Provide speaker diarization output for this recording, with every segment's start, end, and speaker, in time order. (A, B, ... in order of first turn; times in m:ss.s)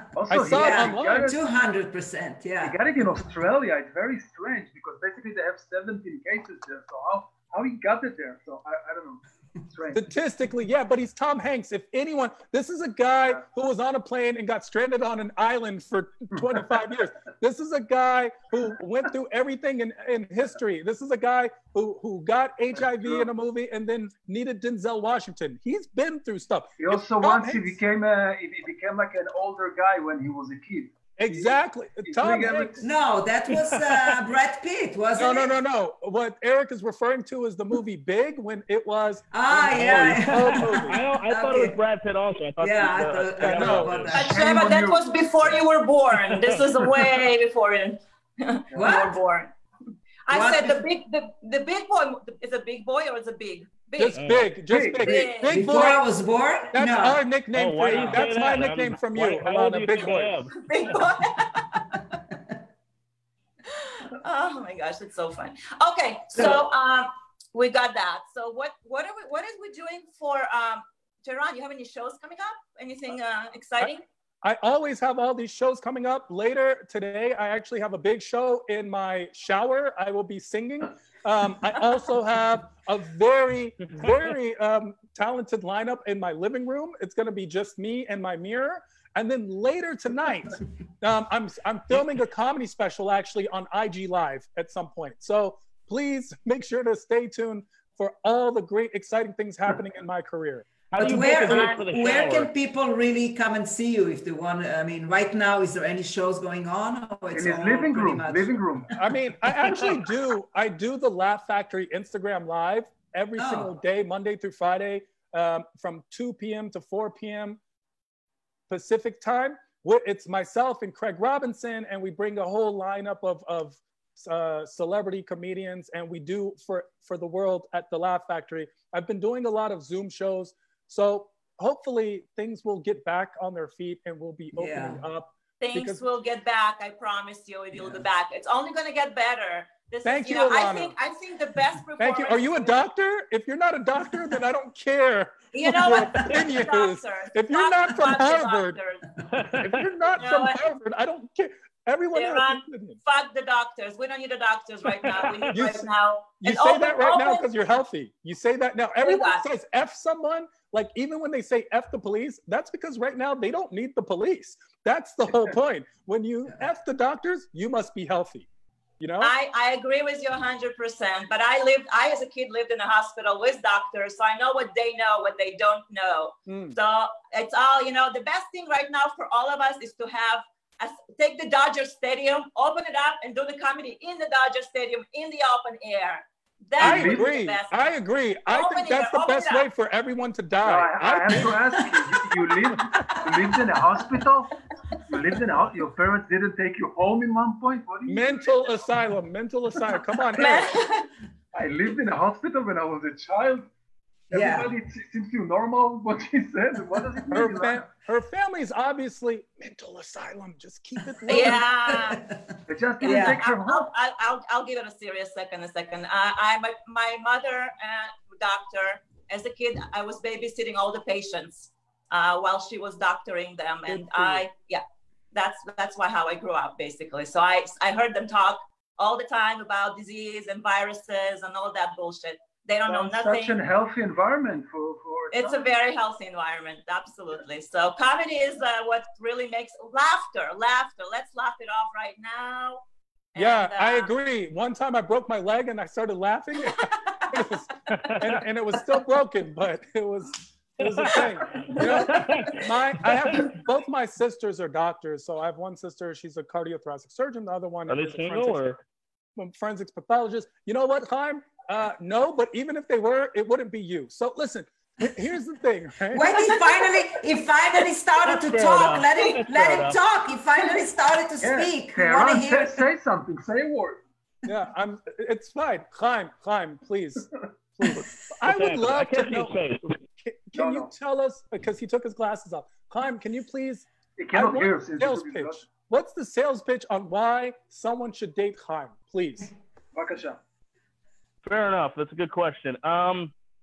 0:00.1-0:01.4 A
0:00.3-0:01.3 B
0:00.3-0:02.8 C
0:02.6-0:10.1 A
0:09.9-0:27.8 B
0:22.8-0:23.3 A
0:26.8-0:32.8 A
0:31.2-0:32.8 B
0:32.8-0:35.5 C
0:33.7-0:34.1 D
0:35.2-0:41.0 B
0:39.3-0:41.8 C
0:39.9-0:44.1 D
0:42.6-0:44.4 C
0:43.4-0:44.1 B
0:44.1-0:45.6 A
0:44.1-0:49.5 E
0:46.3-0:46.9 D
0:48.7-0:49.2 C
0:50.3-0:54.2 E
0:50.3-0:50.8 C
0:54.0-0:56.0 B
0:54.1-0:54.5 D
0:54.7-0:55.3 A
0:55.0-0:55.6 E
0:55.5-0:57.2 C
0:56.7-1:00.4 B
0:57.5-1:00.5 D
1:00.6-1:02.0 E
1:03.7-1:14.0 E
1:06.3-1:06.6 C
1:13.8-1:40.7 B
1:40.9-1:42.5 D
1:41.0-1:48.6 C
1:41.5-1:41.8 E
1:47.3-1:48.9 A
1:48.9-1:57.6 B
1:53.4-1:53.7 C
1:58.7-2:16.0 B
2:14.6-2:15.0 C
2:15.6-2:22.8 E
2:20.0-2:20.9 B
2:22.0-2:28.8 B
2:25.5-2:29.0 E
2:29.3-2:29.8 D
2:29.6-2:33.0 B
2:30.2-2:30.6 E
2:32.1-2:37.5 E
2:35.5-2:48.4 B
2:39.0-2:39.4 E
2:49.0-2:49.3 B
2:49.2-3:07.7 E
2:56.5-2:56.8 B
3:06.8-3:11.9 B
3:06.8-3:07.3 A
3:08.5-3:09.7 E
3:10.6-3:14.6 A
3:15.1-3:18.5 A
3:18.0-3:20.8 B
3:20.3-3:21.1 E
3:21.5-3:23.7 A
3:24.3-3:27.9 A
3:24.3-3:24.7 C
3:27.3-3:31.6 B
3:31.0-3:33.4 C
3:31.3-3:32.2 E
3:32.7-3:33.9 A
3:33.0-3:53.6 E
3:43.8-3:44.4 B
3:52.9-3:55.6 A
3:55.3-4:02.8 E
4:03.3-4:04.1 E
4:03.3-4:18.6 B
4:06.6-4:07.4 E
4:07.9-4:08.4 D
4:10.8-4:13.6 D
4:11.1-4:12.3 E
4:17.9-4:18.8 D
4:19.4-4:26.5 B
4:26.1-4:32.8 C
4:26.4-4:26.8 E
4:28.2-4:30.0 D
4:31.4-4:34.0 A
4:34.4-4:37.2 B
4:37.8-4:39.6 B
4:38.4-4:39.9 D
4:40.2-4:49.5 B
4:40.5-4:40.9 A
4:44.2-4:45.6 A
4:49.9-4:50.4 A
4:51.4-4:53.3 D